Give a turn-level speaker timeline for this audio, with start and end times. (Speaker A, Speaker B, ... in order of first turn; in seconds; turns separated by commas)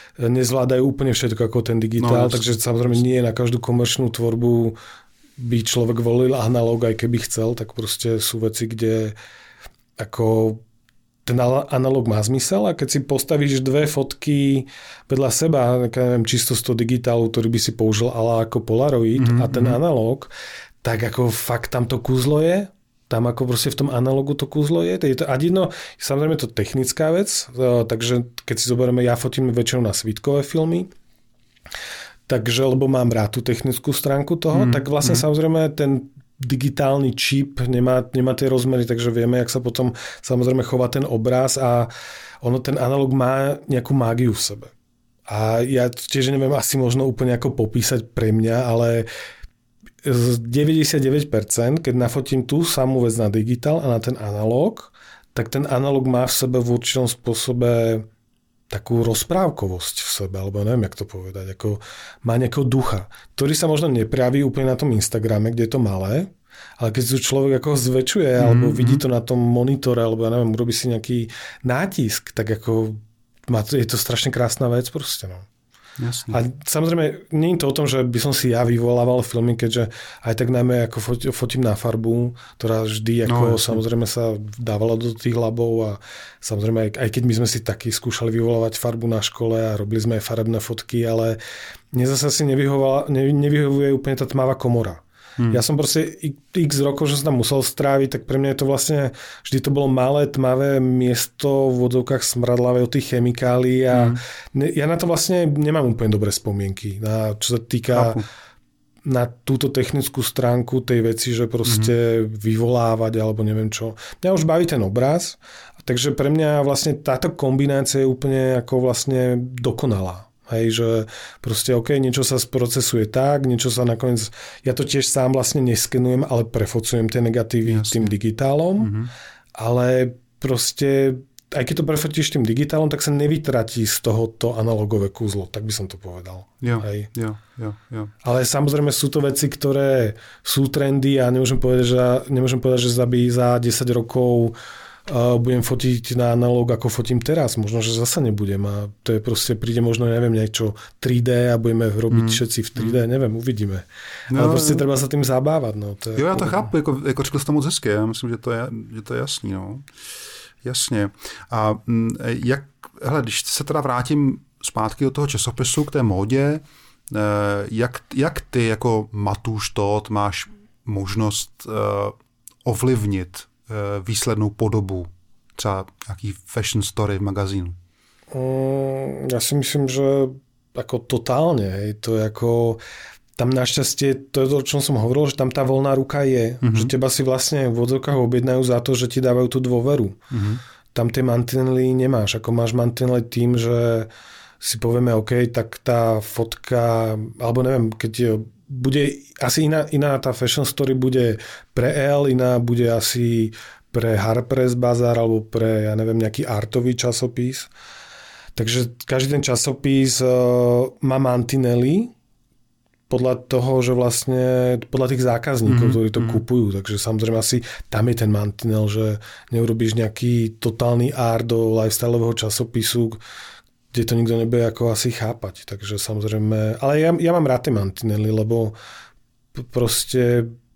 Speaker A: 0.2-4.8, Speaker B: 2.0-2.5, Speaker A: 5.4-9.1, Speaker A: 10.0-10.6, Speaker A: 11.2-20.3, Speaker B: 19.1-19.8, Speaker A: 20.8-30.9, Speaker A: 32.3-44.7, Speaker B: 34.5-35.2, Speaker A: 45.3-49.0, Speaker A: 50.0-58.1, Speaker A: 58.7-75.5, Speaker B: 68.4-69.0, Speaker B: 76.0-76.4, Speaker A: 76.3-91.4, Speaker B: 83.2-83.8, Speaker A: 91.9-108.2, Speaker B: 103.9-104.2, Speaker B: 107.9-108.2, Speaker A: 109.0-128.9, Speaker B: 111.6-111.9, Speaker B: 127.6-128.1, Speaker B: 128.8-129.1, Speaker A: 129.5-137.1, Speaker B: 136.6-138.1, Speaker A: 138.2-156.7, Speaker B: 152.1-153.0, Speaker B: 154.3-154.9, Speaker B: 156.1-159.8, Speaker B: 160.6-177.8, Speaker A: 178.3-182.8, Speaker A: 183.4-190.2, Speaker B: 186.6-186.9, Speaker B: 190.3-190.6, Speaker A: 190.9-194.1, Speaker A: 194.6-207.7, Speaker A: 208.6-212.1, Speaker A: 213.1-223.2, Speaker B: 215.7-216.4, Speaker A: 223.9-228.7, Speaker A: 229.5-230.5